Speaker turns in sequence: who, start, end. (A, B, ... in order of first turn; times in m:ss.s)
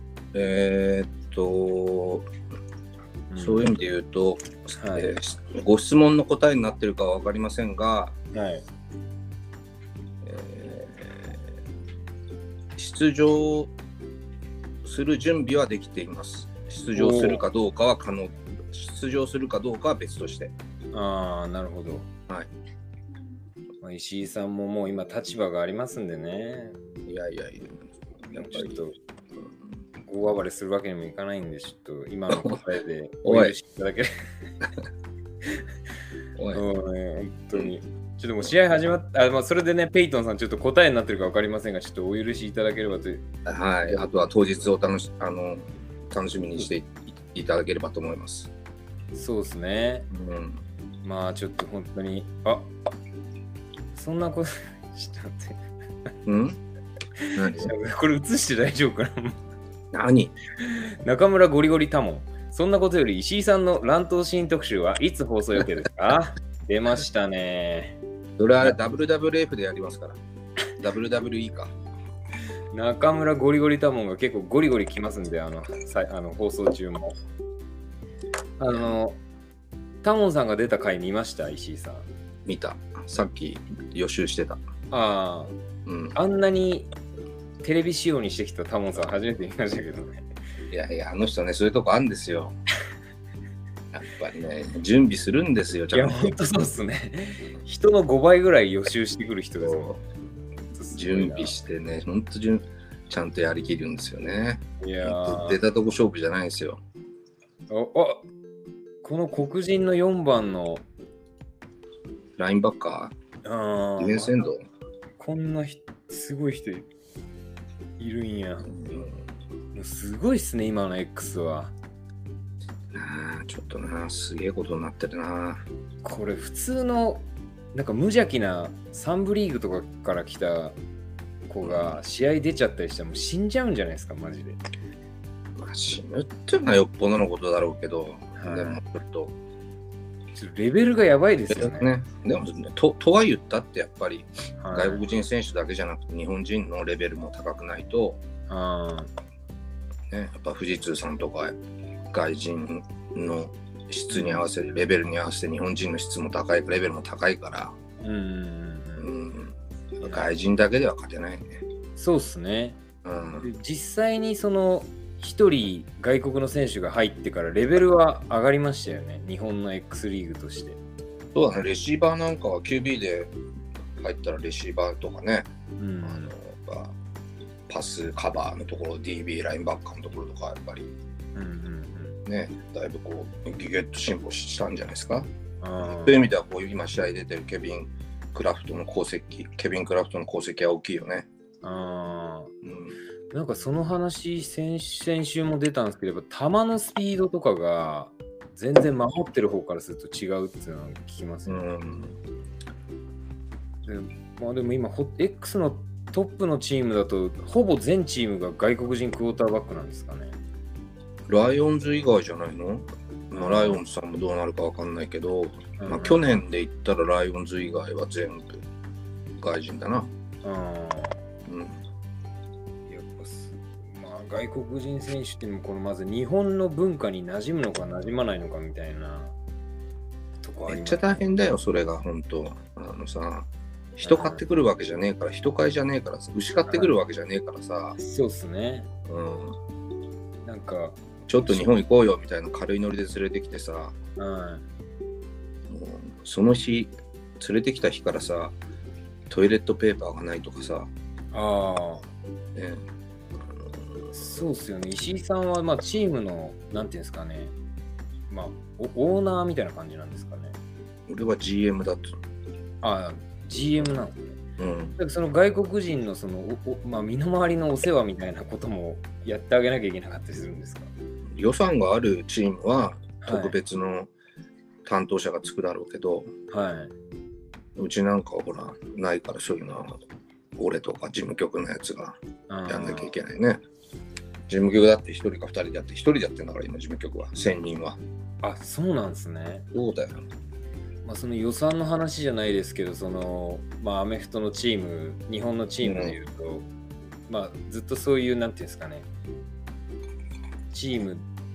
0:00.3-0:02.3 A
0:03.3-0:03.7 B
0:03.4-0:08.1 A
0:04.8-0:05.2 B
0:08.3-0:08.6 B
0:10.2-0:11.4 A
0:12.8-0:13.7 A
0:14.8-0:20.5 A
0:16.9-0:17.4 B
0:20.9-0:22.1 B
0:23.8-0:26.8 B
0:27.1-0:28.7 A
0:28.3-0:29.0 B
0:30.0-0:34.1 B
0:32.3-0:32.6 A
0:33.2-0:33.5 A
0:36.4-0:36.6 A
0:36.5-0:43.2 B
0:43.4-0:48.5 A
0:43.9-0:44.3 B
0:49.1-0:50.1 B
0:50.1-0:50.6 A
0:51.0-0:52.7 B
0:53.9-0:55.6 B
0:56.2-0:56.6 A
0:57.2-0:59.4 B
0:57.4-0:57.7 A
0:59.9-1:00.3 A
1:00.6-1:08.0 B
1:08.4-1:10.2 A
1:10.8-1:11.7 A
1:12.7-1:17.1 B
1:18.6-1:19.2 B
1:20.0-1:22.1 B
1:22.4-1:24.6 A
1:24.9-1:25.5 B
1:25.8-1:26.2 A
1:26.1-1:26.9 B
1:27.6-1:30.2 B
1:30.7-1:32.5 A
1:33.9-1:36.3 A
1:35.9-1:40.0 B
1:39.6-1:40.0 A
1:40.7-1:41.5 B
1:40.9-1:46.8 A
1:44.8-1:45.6 B
1:47.7-1:48.2 B
1:49.0-1:50.8 B
1:52.4-1:53.1 A
1:53.4-1:54.4 B
1:54.0-1:54.6 A
1:55.2-1:56.9 B
1:58.0-1:58.8 B
1:58.7-1:59.2 A
1:59.7-2:01.7 B
2:02.9-2:05.6 A
2:06.0-2:10.8 B
2:11.5-2:14.6 B
2:11.6-2:12.0 A
2:15.6-2:19.4 A
2:18.4-2:18.8 B
2:20.4-2:21.9 B
2:21.5-2:28.2 A
2:24.6-2:25.0 B
2:28.5-2:29.1 B
2:30.1-2:31.6 A
2:32.1-2:37.8 A
2:34.1-2:34.4 B
2:38.0-2:39.1 B
2:39.0-2:41.6 A
2:40.0-2:40.3 B
2:42.0-2:42.8 B
2:43.0-2:43.5 A
2:43.4-2:50.8 B
2:51.3-2:53.3 A
2:54.0-2:55.5 A
2:55.8-2:56.3 B
2:56.0-2:56.9 A
2:57.7-3:00.9 A
3:01.3-3:02.2 B
3:02.2-3:05.3 A
3:05.6-3:06.3 B
3:05.8-3:11.3 A
3:11.6-3:12.5 B
3:12.6-3:13.0 A
3:13.3-3:21.6 B
3:21.5-3:22.2 A
3:23.8-3:30.4 B
3:31.3-3:38.6 A
3:33.3-3:33.8 B
3:35.8-3:36.2 B
3:39.4-3:40.1 A
3:40.4-3:41.2 B
3:41.4-3:41.8 A
3:42.9-3:49.3 B
3:50.4-3:51.2 B
3:50.7-3:58.0 A
3:54.0-3:54.4 B
3:56.7-3:56.9 B
3:58.0-3:58.9 B
3:59.1-3:59.6 A
4:00.4-4:01.0 B
4:01.3-4:03.9 A
4:04.2-4:04.6 B
4:05.7-4:08.6 A
4:09.3-4:10.9 A
4:11.3-4:12.0 B
4:12.5-4:12.8 A
4:14.1-4:17.5 B
4:18.3-4:20.6 B
4:21.1-4:22.1 A
4:22.8-4:24.4 B
4:24.6-4:25.0 A
4:25.0-4:30.9 B
4:31.3-4:34.1 A
4:33.2-4:33.6 B
4:34.8-4:36.3 A
4:36.5-4:36.9 B
4:37.8-4:40.0 A
4:40.6-4:43.6 A
4:42.5-4:43.1 B
4:44.5-4:48.0 A
4:48.4-4:49.6 B
4:49.7-4:50.2 A
4:51.0-4:56.7 B
4:55.8-4:56.2 A
4:57.3-4:59.1 B
5:00.7-5:01.2 B